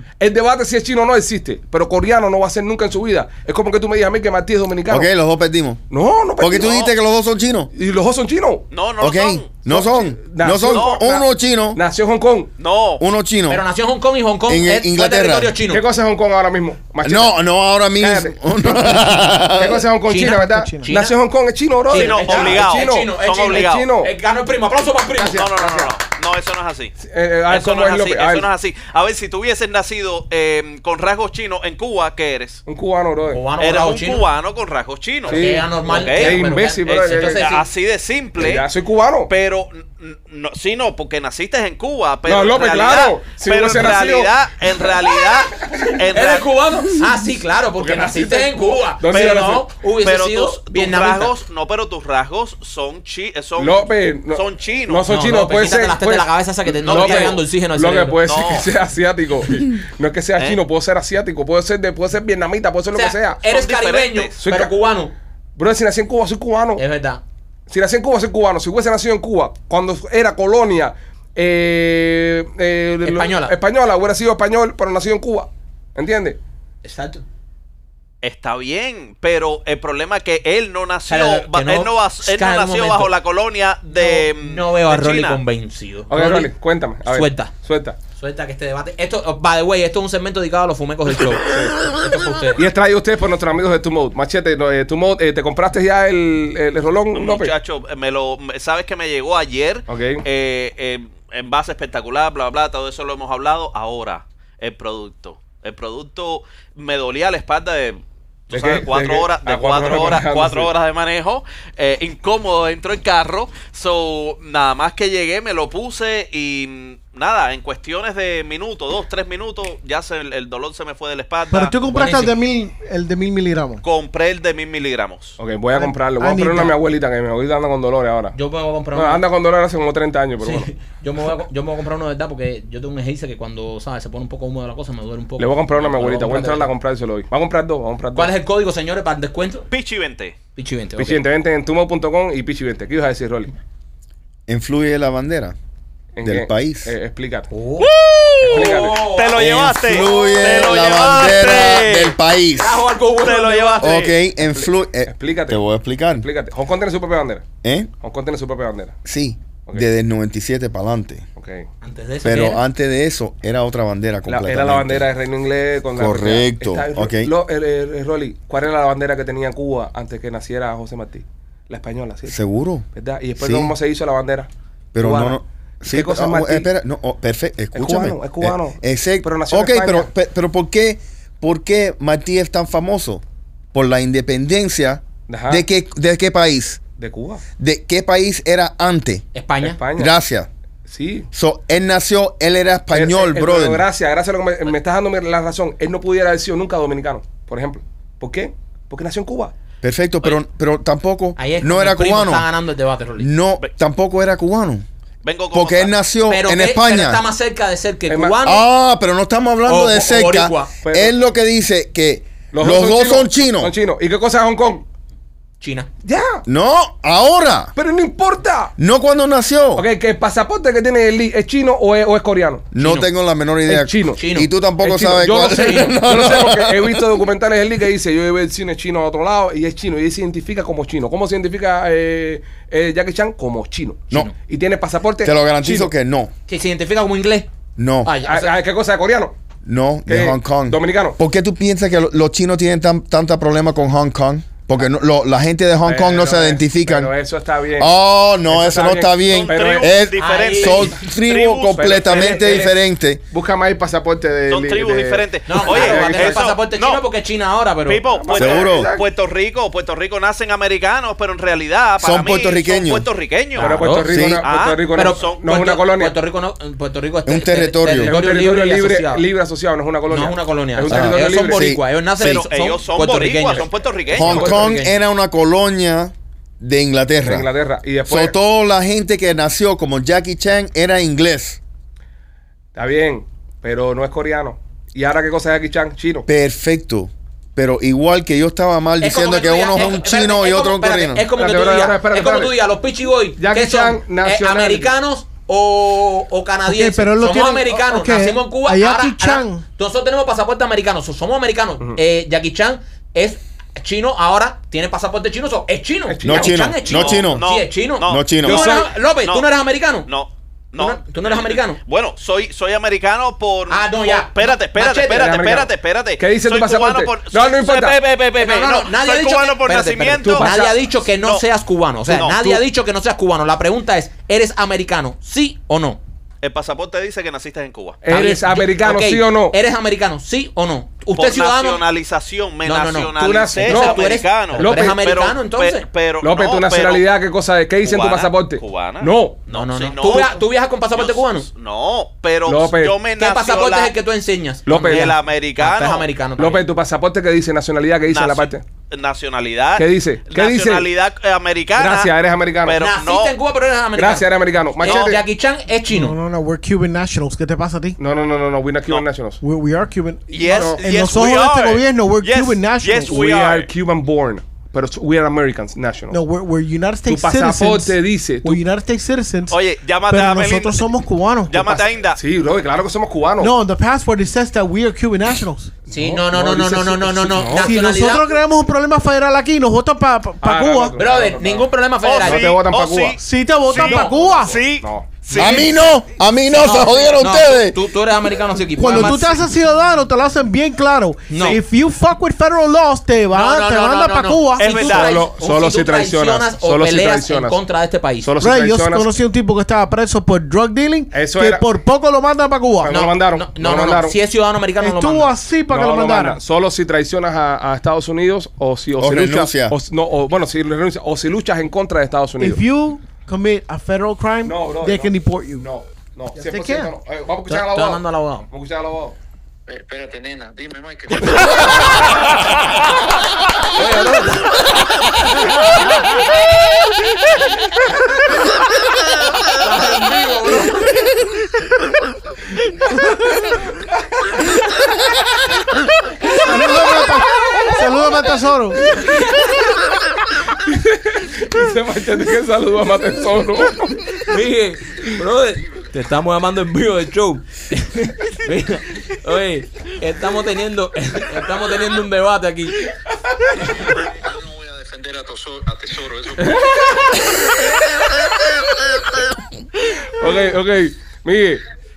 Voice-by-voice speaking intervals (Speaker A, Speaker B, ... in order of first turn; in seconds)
Speaker A: 0.2-5.1, 5.9-6.8, 7.7-8.7, 9.7-12.5, 15.7-17.4, 18.0-24.1, 25.1-25.9, 27.0-28.5, 32.7-33.4, 35.3-37.5, 38.4-39.3, 42.3-44.5, 45.5-45.9, 47.8-49.7, 53.6-63.4, 64.4-64.7, 65.6-66.8, 67.7-76.4, 86.1-88.0, 91.4-91.8, 92.5-97.5, 99.9-100.2, 108.5-110.7, 125.4-128.4, 128.9-130.7, 135.4-138.3, 141.0-143.5, 146.2-147.5, 148.4-149.1, 154.4-155.6, 156.1-157.5, 158.0-159.0, 161.4-161.7, 164.3-172.4, 172.9-176.7, 177.7-180.1, 185.3-185.6, 187.0-187.4, 189.6-190.1, 190.9-191.3, 192.9-199.5, 208.1-208.4, 210.8-211.2, 212.5-214.8, 216.0-216.4, 217.8-218.7, 219.8-222.7, 223.7-224.2, 224.8-235.9, 238.2-239.3, 240.1-241.2, 245.8-247.9, 248.5-249.9, 251.1-252.8, 253.3-256.5, 258.1-259.1, 263.6-266.2, 268.0-271.7, 274.2-274.8, 277.2-278.3, 282.8-286.3, 291.3-292.6, 293.4-294.9, 306.1-307.2, 308.4-308.9, 315.1-318.0, 320.3-320.7, 328.0-329.6, 333.4-335.0, 336.2-339.4, 342.5-343.0, 344.7-345.1, 346.4-348.6, 349.8-350.9, 351.8-352.8, 354.0-355.2, 358.0-359.4, 360.4-360.8, 363.1-366.2, 367.1-368.6, 372.2-373.5, 375.9-377.7, 380.4-383.2, 383.7-385.2, 394.8-397.6, 398.2-399.1, 401.1-401.7, 402.8-404.2, 405.7-412.6, 414.4-419.2, 440.6-444.0, 460.1-461.6
Speaker B: 4.9-5.8, 6.4-7.7, 9.0-11.8, 13.0-13.6, 14.5-15.6, 17.0-19.9, 144.5-145.6, 146.2-146.9, 149.4-152.8, 153.8-156.3, 157.6-157.9, 159.1-161.2, 162.2-165.1, 165.9-167.3, 172.3-172.9, 173.4-173.7, 174.9-183.2, 183.7-186.8, 187.6-189.3, 190.0-190.5, 191.3-193.8, 199.8-202.5, 203.2-204.8, 205.5-207.2, 208.4-213.7, 216.5-217.7, 218.8-219.9, 222.7-227.2, 235.2-236.3, 237.8-238.1, 239.7-247.1, 247.8-253.2, 258.4-258.9, 262.0-263.1, 264.1-264.4, 267.3-268.1, 270.9-272.4, 274.1-277.5, 278.1-281.6, 286.3-291.3, 306.2-307.4, 308.1-308.6, 385.3-387.8, 409.0-409.7
Speaker C: 6.5-6.9, 8.7-9.6, 10.6-11.0, 12.6-13.0, 21.9-23.9, 25.3-26.9, 27.5-32.6, 33.6-38.7, 39.3-46.5, 49.1-55.1, 56.9-57.4, 58.2-58.7, 63.5-64.3, 78.2-85.4, 97.2-121.8, 123.8-125.4, 139.7-140.3, 147.8-152.2, 153.2-154.2, 205.2-205.9, 249.1-251.1, 254.5-257.1, 257.9-263.8, 264.4-265.4, 272.2-274.6, 307.0-309.5, 310.1-321.4, 322.1-322.6, 326.4-328.0, 331.2-337.1, 337.8-340.4, 340.9-343.9, 344.7-346.1, 348.1-353.4, 354.8-355.2, 360.3-363.7, 369.5-372.2, 382.0-383.2, 383.7-385.8, 394.6-395.3
Speaker D: 13.5-15.8, 20.1-21.2, 21.9-25.5, 33.3-34.2, 35.3-37.6, 46.1-51.3, 55.1-58.3, 62.9-65.1, 66.8-67.2, 73.0-73.6, 76.8-77.2, 81.1-83.1, 83.9-86.5, 87.0-87.5, 88.2-92.6, 121.8-122.3, 128.3-129.2, 130.4-136.7, 138.1-139.7, 140.6-141.3, 147.5-147.9, 148.5-150.7, 152.6-154.0, 161.8-162.6, 189.3-189.8, 201.4-203.3, 206.3-208.6, 209.7-210.7, 215.6-215.9, 222.8-223.1, 224.0-224.5, 225.4-225.9, 236.5-237.5, 238.1-238.5, 250.2-251.0, 255.5-258.1, 263.6-264.1, 264.9-269.2, 270.1-273.7, 274.2-275.0, 289.0-310.1, 310.8-311.8, 313.7-315.4, 318.4-326.0, 328.1-331.8, 332.6-335.9, 339.5-341.5, 343.2-346.7, 352.8-354.3, 354.8-356.2, 375.9-378.3, 381.0-382.6, 383.8-384.1, 385.4-385.7, 386.5-389.4, 391.3-391.6, 393.3-398.3, 402.9-405.3, 417.5-418.5, 423.8-424.7, 429.6-430.9, 438.9-439.5, 444.1-452.9
Speaker E: 20.2-20.9, 121.5-123.8, 125.8-126.8, 296.7-299.6, 355.9-358.0, 359.4-363.1, 366.1-369.6, 370.1-371.9, 373.4-375.7, 377.5-380.9, 383.2-384.6, 388.8-394.8, 398.4-403.0, 404.8-406.4, 412.4-415.7, 416.4-416.9, 436.4-438.8
Speaker F: 419.7-422.1, 454.0-457.0